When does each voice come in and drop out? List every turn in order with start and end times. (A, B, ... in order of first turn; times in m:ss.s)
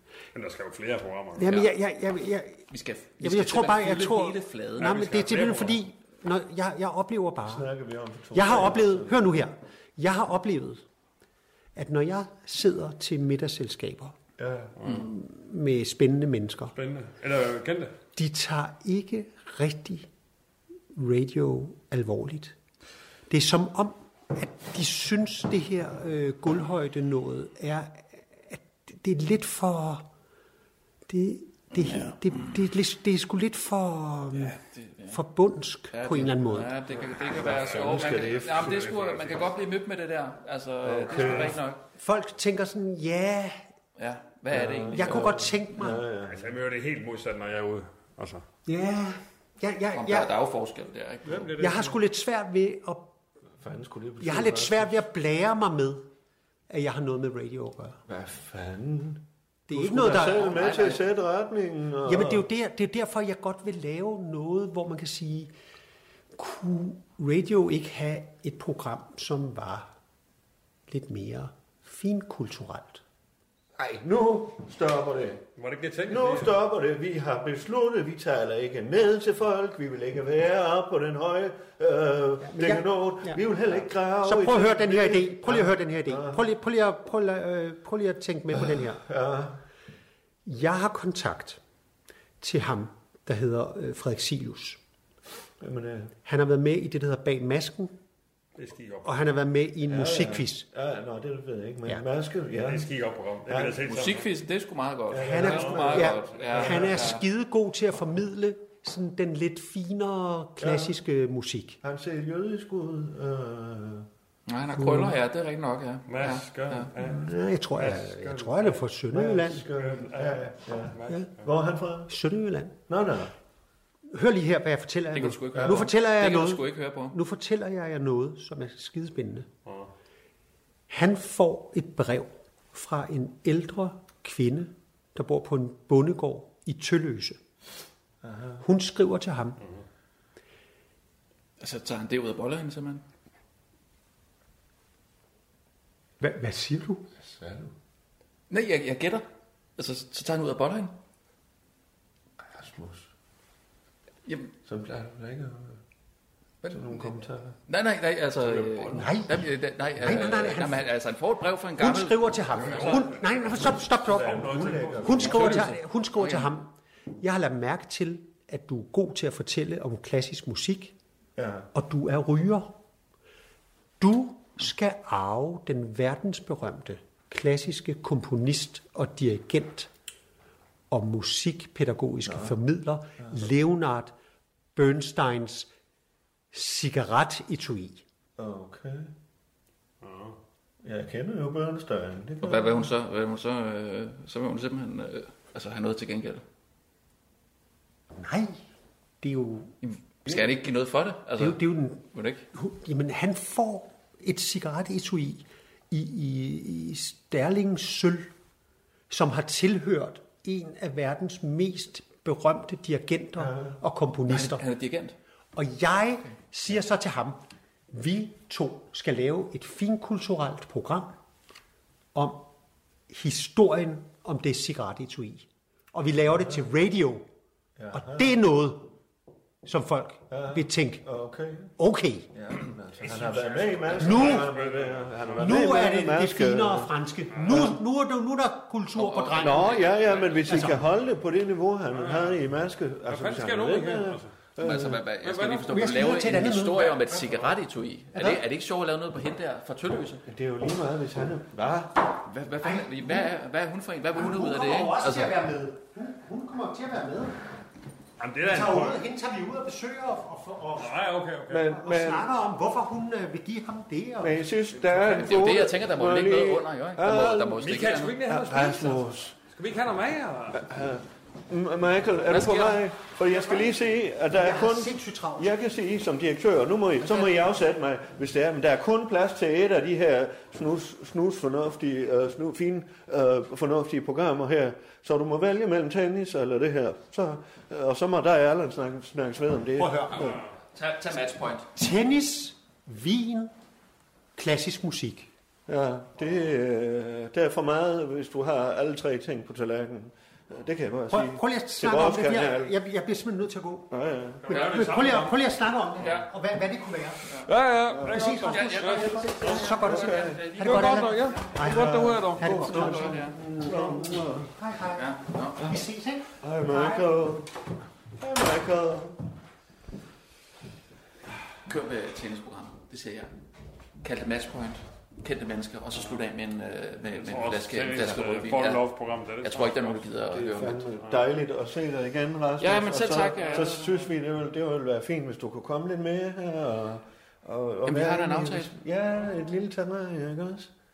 0:00.3-0:01.5 A
0:01.4-0:02.6 B
0:01.4-0:01.7 C
0:02.7-0:05.0 C
0:03.2-0:07.7 B
0:04.8-0:05.8 A
0:07.4-0:09.3 D
0:08.3-0:10.8 B
0:11.8-0:14.2 B
0:14.4-0:14.8 D
0:14.9-0:16.7 B
0:16.8-0:17.9 A
0:18.2-0:20.1 B
0:20.9-0:22.6 B
0:23.3-0:30.1 B
0:31.1-0:36.8 B
0:31.9-0:32.4 C
0:34.3-0:35.2 C
0:35.9-0:41.8 C
0:37.1-0:39.0 D
0:37.4-0:39.4 A
0:40.8-0:41.6 D
0:42.0-0:43.6 B
0:44.0-0:46.0 C
0:44.5-0:46.5 D
0:44.9-0:46.1 B
0:46.3-0:48.4 A
0:48.7-0:50.3 B
0:49.9-0:51.5 C
0:51.2-0:52.0 A
0:51.6-0:53.1 B
0:53.6-0:55.0 D
0:54.2-0:56.1 B
0:56.7-0:58.0 B
0:58.1-1:02.5 D
0:59.7-1:00.5 B
1:00.2-1:01.0 C
1:02.0-1:05.5 B
1:06.4-1:09.9 B
1:10.9-1:13.0 B
1:13.8-1:15.4 D
1:15.6-1:16.6 A
1:16.1-1:26.5 D
1:22.4-1:23.4 B
1:24.2-1:29.0 B
1:28.5-1:29.6 D
1:30.4-1:31.6 B
1:32.4-1:34.8 B
1:35.6-1:36.1 D
1:36.2-1:38.0 B
1:38.6-1:39.2 A
1:39.0-1:40.7 B
1:39.9-1:42.9 D
1:42.6-1:44.3 A
1:43.4-1:43.9 D
1:43.8-1:47.2 C
1:45.1-1:47.2 D
1:45.2-1:51.8 B
1:45.4-1:46.6 A
1:50.6-1:51.0 D
1:51.8-1:54.1 D
1:54.5-1:56.9 C
1:54.8-1:55.2 B
1:56.1-1:58.8 A
1:57.0-1:59.7 B
1:59.1-2:02.1 D
1:59.7-2:01.3 A
2:02.1-2:02.8 B
2:02.9-2:03.3 D
2:04.1-2:09.5 B
2:05.1-2:07.2 C
2:05.5-2:05.9 D
2:10.9-2:17.4 B
2:18.2-2:18.6 D
2:18.6-2:19.6 B
2:21.6-2:23.0 C
2:26.2-2:27.1 B
2:27.2-2:27.7 D
2:28.5-2:29.3 C
2:29.8-2:30.9 C
2:32.4-2:33.1 D
2:34.3-2:34.5 C
2:34.6-2:35.8 D
2:36.6-2:37.6 D
2:37.7-2:42.9 C
2:39.0-2:40.9 B
2:41.8-2:51.0 B
2:42.6-2:45.6 A
2:42.7-2:43.0 D
2:44.1-2:45.6 D
2:45.2-2:46.5 C
2:51.4-2:51.7 D
2:51.7-2:52.7 B
2:54.0-2:59.9 B
3:00.9-3:04.2 B
3:02.2-3:02.6 D
3:04.8-3:05.7 B
3:06.5-3:08.0 B
3:08.4-3:09.1 D
3:10.0-3:10.4 A
3:10.8-3:12.9 D
3:12.4-3:16.4 C
3:18.1-3:18.6 B
3:19.2-3:19.8 B
3:19.8-3:22.4 C
3:21.4-3:28.3 B
3:29.1-3:34.6 B
3:33.4-3:33.7 D
3:34.3-3:35.2 C
3:35.6-3:37.4 B
3:37.9-3:41.1 B
3:42.1-3:42.5 B
3:43.1-3:47.3 B
3:46.3-3:46.6 D
3:47.8-3:48.4 D
3:47.9-3:48.9 B
3:49.6-3:51.0 B
3:50.3-3:51.7 D
3:51.8-3:52.3 B
3:52.4-3:57.8 D
3:53.2-3:55.6 A
3:53.8-3:54.3 C
3:54.0-3:54.5 B
3:55.4-3:59.9 B
3:59.0-4:00.7 C
3:59.4-4:05.0 D
4:00.4-4:00.8 B
4:01.9-4:02.4 A
4:03.1-4:04.4 A
4:04.6-4:10.2 C
4:05.2-4:05.9 A
4:05.7-4:07.1 B
4:07.1-4:07.4 A
4:08.1-4:08.4 D
4:10.3-4:12.3 D
4:12.3-4:15.4 C
4:12.6-4:13.3 B
4:14.1-4:17.4 B
4:18.2-4:19.0 A
4:18.4-4:21.0 B
4:20.8-4:21.7 A
4:21.5-4:22.4 D
4:21.6-4:24.5 B
4:24.2-4:29.4 D
4:25.1-4:28.2 C
4:27.6-4:30.6 A
4:30.5-4:50.4 D
4:32.3-4:32.8 C
4:34.3-4:35.5 B
4:49.8-4:50.3 B
4:50.2-4:50.4 A
4:50.3-4:51.7 C
4:51.8-4:53.5 B
4:54.4-4:55.3 B
4:55.7-5:02.8 D
5:01.1-5:03.9 B
5:03.9-5:04.5 D
5:04.5-5:05.4 A
5:04.5-5:07.2 B
5:04.6-5:04.8 C
5:06.0-5:06.3 C
5:07.3-5:07.5 C
5:07.4-5:09.9 A
5:07.9-5:08.4 D
5:07.9-5:17.2 B
5:08.5-5:11.6 C
5:09.4-5:10.6 D
5:10.6-5:12.8 A
5:11.6-5:14.5 D
5:12.6-5:13.4 C
5:15.0-5:15.7 C
5:16.4-5:17.6 D
5:18.2-5:19.2 D
5:21.7-5:23.3 C
5:24.0-5:28.9 C
5:27.1-5:30.0 A
5:29.4-5:30.8 C
5:30.3-5:40.7 D
5:32.6-5:33.8 C
5:33.2-5:34.0 A
5:37.9-5:38.7 C